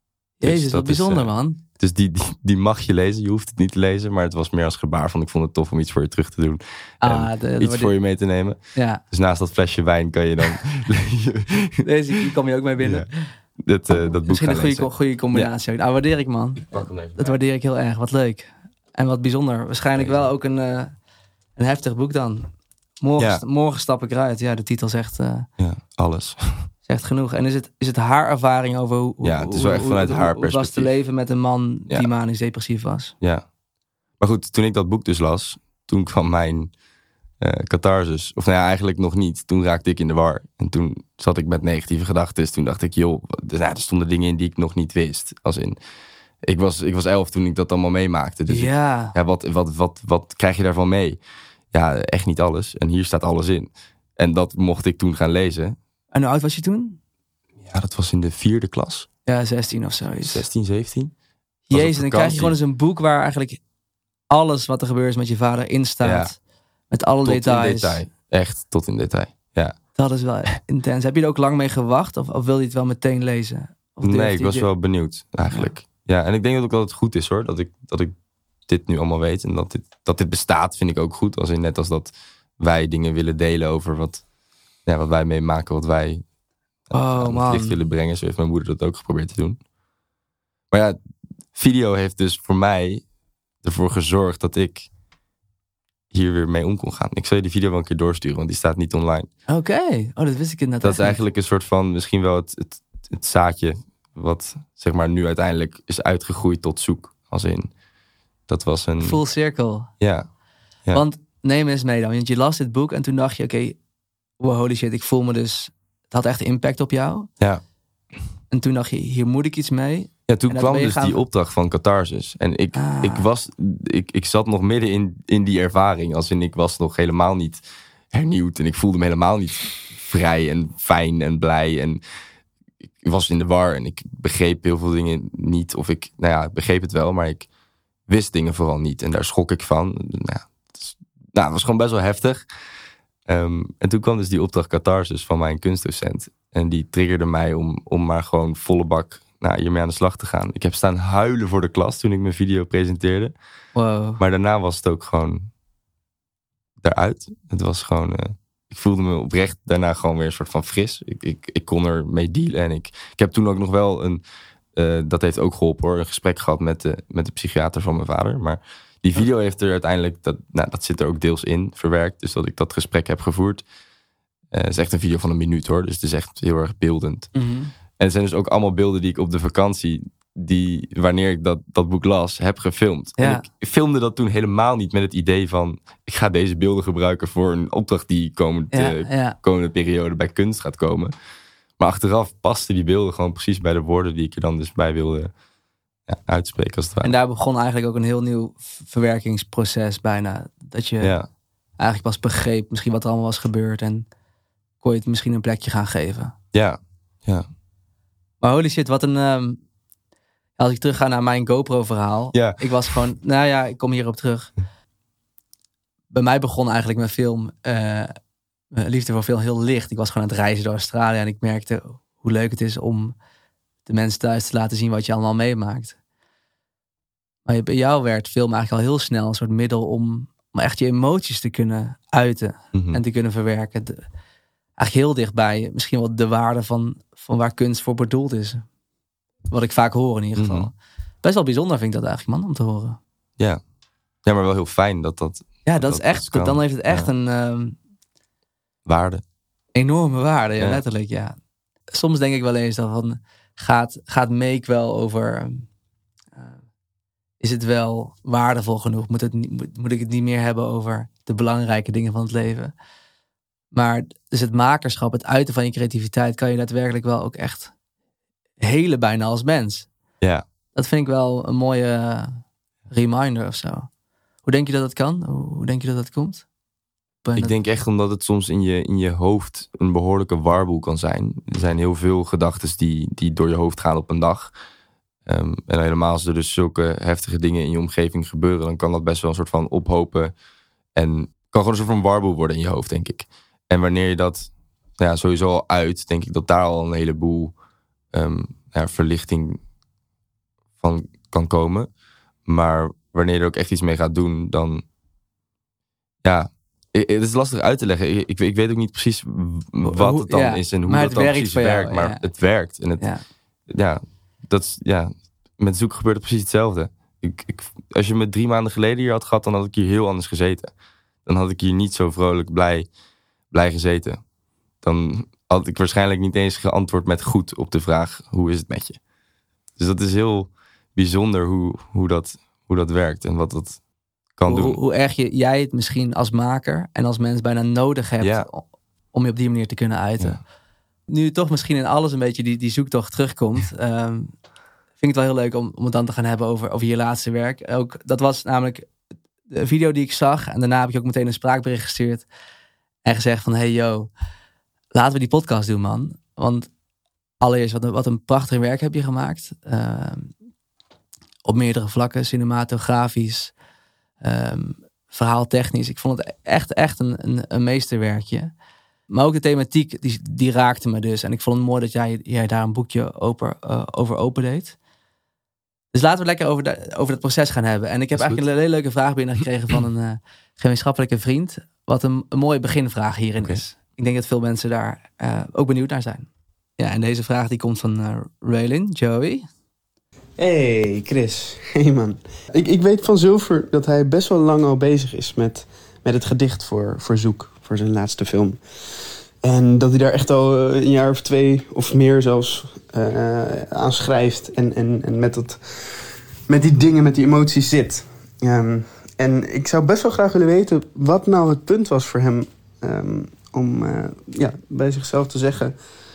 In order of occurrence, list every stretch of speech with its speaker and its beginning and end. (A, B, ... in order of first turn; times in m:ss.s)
0:00.4-0:01.6 A
0:00.4-0:08.6 B
0:07.0-0:07.9 A
0:08.7-0:09.0 A
0:09.1-0:11.8 B
0:11.8-0:13.3 A
0:12.8-0:13.1 B
0:13.6-0:15.5 B
0:14.3-0:20.9 A
0:16.7-0:17.4 B
0:20.0-0:20.3 B
0:21.6-0:25.5 A
0:25.6-0:26.7 B
0:26.9-0:33.2 A
0:29.2-0:30.9 B
0:34.2-0:36.7 B
0:37.4-0:45.8 B
0:46.4-0:51.2 B
0:48.5-0:49.2 A
0:51.7-0:55.8 B
0:56.1-0:57.0 A
0:57.7-0:59.1 B
0:59.3-1:00.4 A
1:00.2-1:01.1 B
1:01.7-1:03.6 A
1:01.7-1:02.5 B
1:04.3-1:06.4 A
1:06.0-1:06.3 B
1:06.9-1:08.0 A
1:07.2-1:09.8 B
1:10.0-1:14.7 A
1:14.0-1:18.1 B
1:18.7-1:24.2 B
1:24.9-1:26.2 B
1:26.9-1:29.6 B
1:26.9-1:27.8 A
1:30.7-1:31.0 B
1:31.5-1:33.0 B
1:33.6-1:34.9 B
1:36.1-1:39.3 B
1:39.5-1:41.2 A
1:40.8-1:47.7 B
1:48.5-1:49.2 B
1:49.0-1:49.9 A
1:50.0-1:50.3 B
1:50.9-1:53.8 A
1:54.4-1:57.3 A
1:58.5-2:01.2 A
2:00.3-2:12.0 B
2:02.8-2:03.3 A
2:13.0-2:17.5 B
2:18.1-2:22.4 B
2:23.3-2:33.3 B
2:33.8-2:34.2 A
2:34.2-2:35.5 B
2:36.8-2:44.2 B
2:44.8-2:53.6 B
2:54.5-2:57.3 B
2:57.3-2:57.7 A
2:58.0-3:11.1 B
3:03.2-3:03.4 A
3:08.7-3:09.4 A
3:11.8-3:15.3 B
3:16.1-3:17.2 B
3:17.0-3:21.2 A
3:21.0-3:21.3 B
3:21.8-3:24.1 A
3:24.8-3:26.4 A
3:26.5-3:27.5 B
3:28.4-3:29.6 A
3:30.6-3:34.5 A
3:32.3-3:32.6 B
3:36.1-3:38.1 A
3:38.7-3:43.2 A
3:43.9-3:46.0 A
3:47.5-3:54.0 A
3:52.7-3:53.0 B
3:54.8-3:58.6 A
3:59.5-4:03.0 A
4:00.4-4:00.7 B
4:04.2-4:07.1 B
4:05.7-4:07.8 A
4:08.9-4:09.2 B
4:09.8-4:11.4 A
4:10.6-4:10.8 B
4:11.9-4:15.7 A
4:17.4-4:22.7 A
4:23.7-4:27.7 A
4:28.6-4:29.9 A
4:30.8-4:33.9 A
4:34.4-4:36.4 A
4:37.2-4:37.6 A
4:37.4-4:44.5 B
4:45.3-4:50.3 B
4:51.0-4:57.5 B
4:58.1-4:59.6 B
5:00.8-5:01.9 B
5:02.5-5:04.8 B
5:06.2-5:13.1 B
5:09.8-5:12.2 A
5:13.7-5:20.7 B
5:21.3-5:22.9 B
5:23.5-5:24.2 B
5:24.8-5:29.0 B
5:29.8-5:33.8 B
5:34.4-5:34.8 B
5:34.5-5:38.6 A
5:38.2-5:38.5 B
5:39.1-5:40.4 A
5:41.1-5:44.3 A
5:45.0-5:48.9 A
5:49.5-5:52.3 A
5:53.0-5:54.1 A
5:54.9-5:56.7 A
5:57.4-6:00.3 A
6:01.4-6:03.5 A
6:04.2-6:08.5 A
6:09.1-6:14.8 A
6:15.9-6:29.5 A
6:18.2-6:18.4 B
6:30.4-6:55.8 C